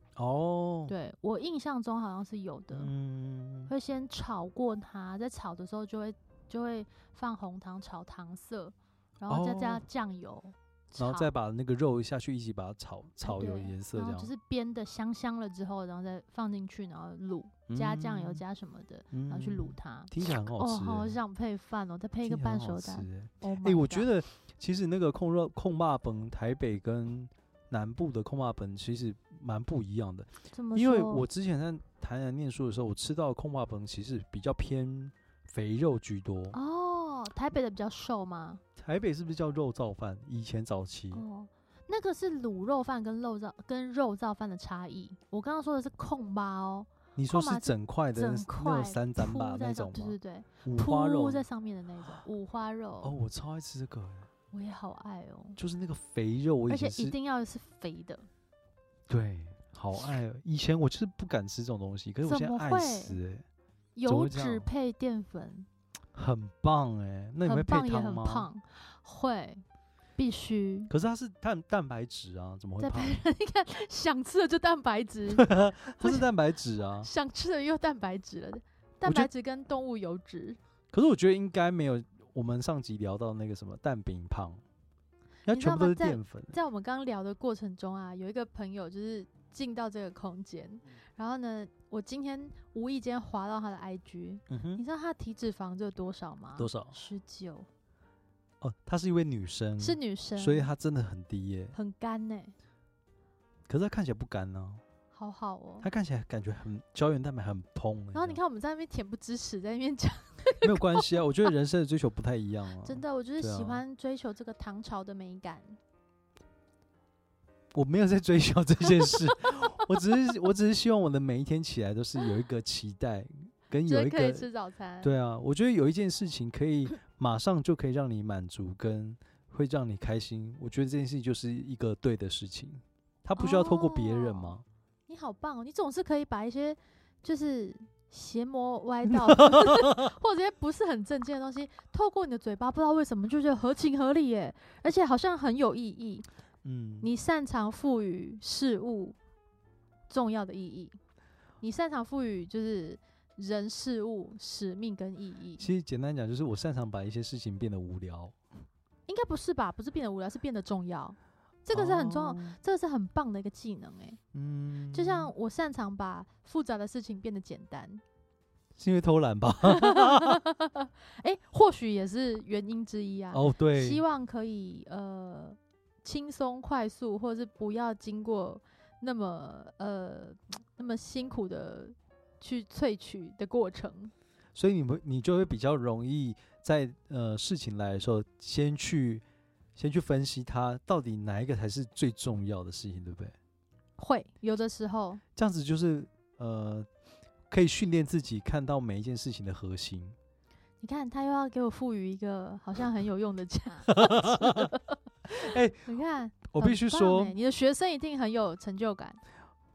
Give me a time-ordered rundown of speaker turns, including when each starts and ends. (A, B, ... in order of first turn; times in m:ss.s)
0:00.2-0:00.9 A
0:00.9-0:02.9 B
0:02.7-0:03.7 A
0:03.7-0:11.3 B
0:09.3-0:09.8 A
0:11.0-0:14.3 A
0:13.2-0:24.1 B
0:17.7-0:18.4 A
0:19.1-0:21.2 A
0:22.2-0:36.6 A
0:30.5-0:31.2 B
0:36.5-0:38.6 B
0:38.8-0:41.2 A
0:41.1-0:53.1 B
0:47.2-0:51.5 A
0:53.0-0:54.3 A
0:54.5-0:55.6 B
0:55.6-0:57.2 A
0:56.7-0:58.3 B
0:59.1-1:03.4 A
1:02.2-1:03.2 B
1:04.0-1:05.7 B
1:04.1-1:04.7 A
1:06.1-1:08.5 A
1:07.4-1:09.6 B
1:10.2-1:10.9 B
1:10.9-1:13.2 A
1:12.8-1:16.2 B
1:15.3-1:17.1 A
1:17.0-1:20.6 B
1:19.0-1:19.3 A
1:20.9-1:24.6 A
1:25.5-1:26.6 A
1:25.5-1:37.7 B
1:34.5-1:34.8 A
1:36.6-1:36.9 A
1:38.6-1:41.8 A
1:39.8-1:40.7 B
1:41.7-1:42.5 B
1:43.7-1:44.8 A
1:45.1-1:45.9 B
1:45.8-1:48.4 A
1:48.1-1:51.2 B
1:50.6-1:53.8 A
1:52.8-1:55.8 B
1:57.7-2:04.5 A
2:03.9-2:05.1 B
2:05.0-2:14.6 A
2:13.4-2:14.6 B
2:15.1-2:26.2 B
2:19.1-2:20.0 A
2:26.6-2:27.1 A
2:27.0-2:29.2 B
2:30.1-2:31.0 B
2:31.6-2:35.7 B
2:35.6-2:38.4 A
2:39.1-2:44.2 B
2:41.7-2:42.6 A
2:44.3-2:45.3 A
2:44.9-2:48.0 B
2:48.8-2:50.4 A
2:49.6-3:04.1 B
2:53.3-2:54.0 A
3:04.6-3:09.2 A
3:09.8-3:13.4 A
3:14.0-3:15.2 B
3:15.4-3:16.9 A
3:17.5-3:20.2 A
3:20.8-3:29.2 B
3:23.9-3:24.7 A
3:25.3-3:25.9 A
3:26.5-3:27.4 A